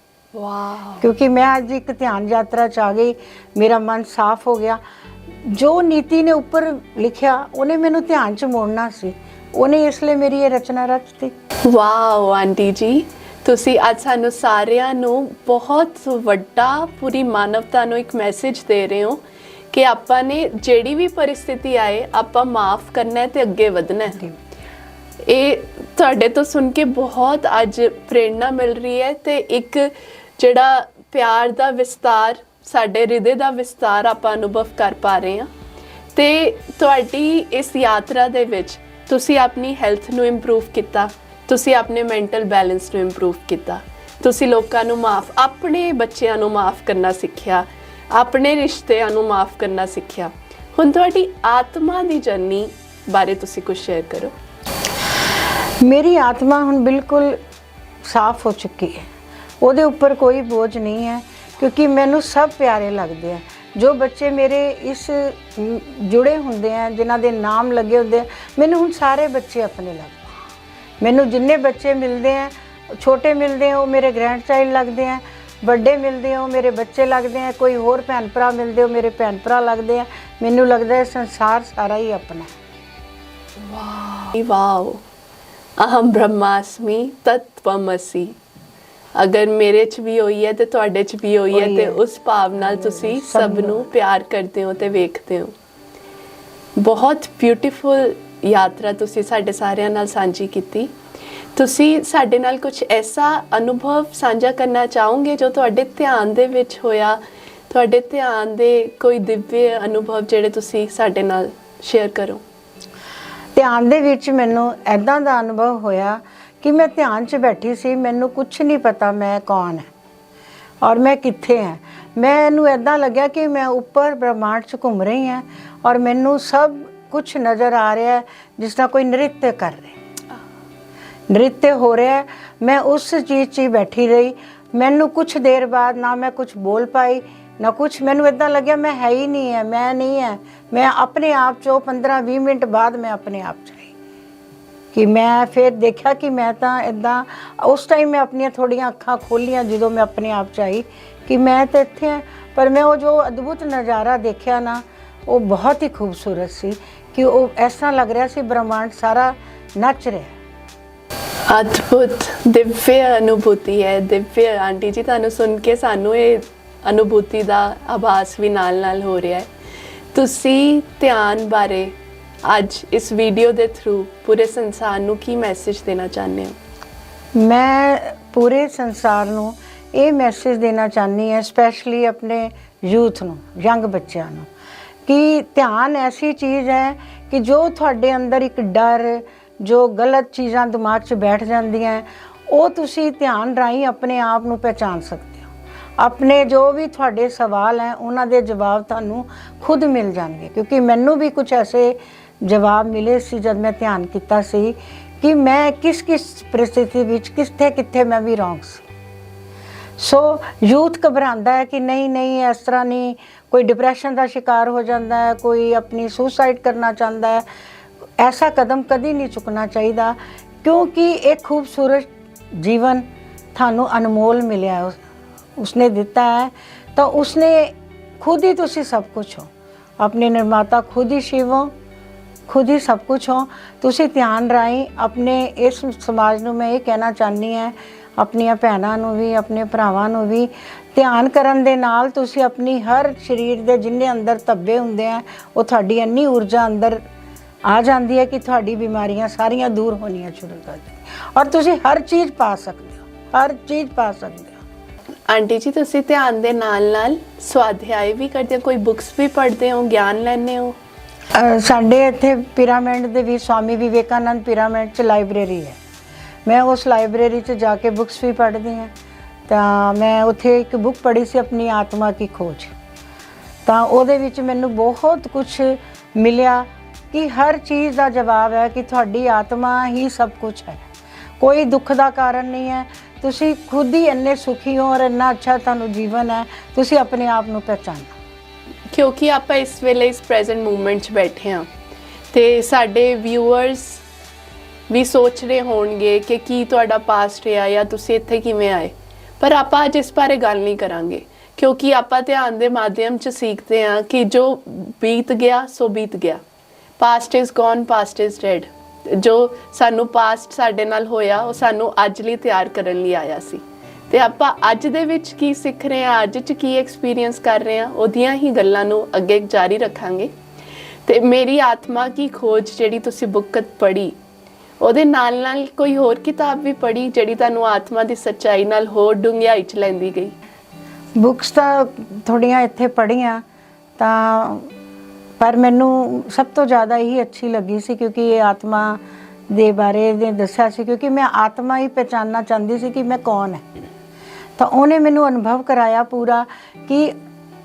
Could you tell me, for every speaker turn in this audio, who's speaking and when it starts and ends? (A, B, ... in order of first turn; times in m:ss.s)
0:00.3-0:01.0 A
0:01.0-0:04.8 B
0:05.4-0:11.3 B
0:11.6-0:24.3 A
0:25.2-0:35.5 A
0:36.1-0:54.3 A
0:55.8-0:57.4 B
0:58.0-0:59.1 B
0:59.6-1:10.4 B
1:11.0-1:22.5 B
1:23.6-1:25.0 A
1:25.8-1:28.3 A
1:29.2-1:35.5 A
1:31.5-1:32.0 B
1:32.8-1:33.8 B
1:36.8-1:40.9 A
1:41.6-1:52.4 A
1:53.5-1:59.9 B
2:00.8-2:10.0 B
2:11.3-2:23.9 B
2:24.9-2:40.3 B
2:41.5-2:49.5 A
2:50.1-2:56.6 A
2:57.3-3:04.5 B
3:05.0-3:28.8 B
3:30.0-3:37.4 B
3:38.2-3:45.0 B
3:45.6-3:51.7 B
3:52.5-4:07.0 B
4:07.6-4:14.6 B
4:15.3-4:20.8 A
4:21.3-4:25.8 B
4:26.4-4:28.9 B
4:29.5-4:32.7 B
4:33.6-4:40.8 B
4:41.4-4:48.1 B
4:48.9-4:51.7 A
4:52.3-4:54.0 A
4:54.9-5:06.4 A
5:07.0-5:20.3 A
5:21.0-5:24.2 A
5:24.8-5:30.3 A
5:31.2-5:33.4 B
5:34.0-5:34.7 B
5:35.4-5:43.6 B
5:44.6-5:47.1 B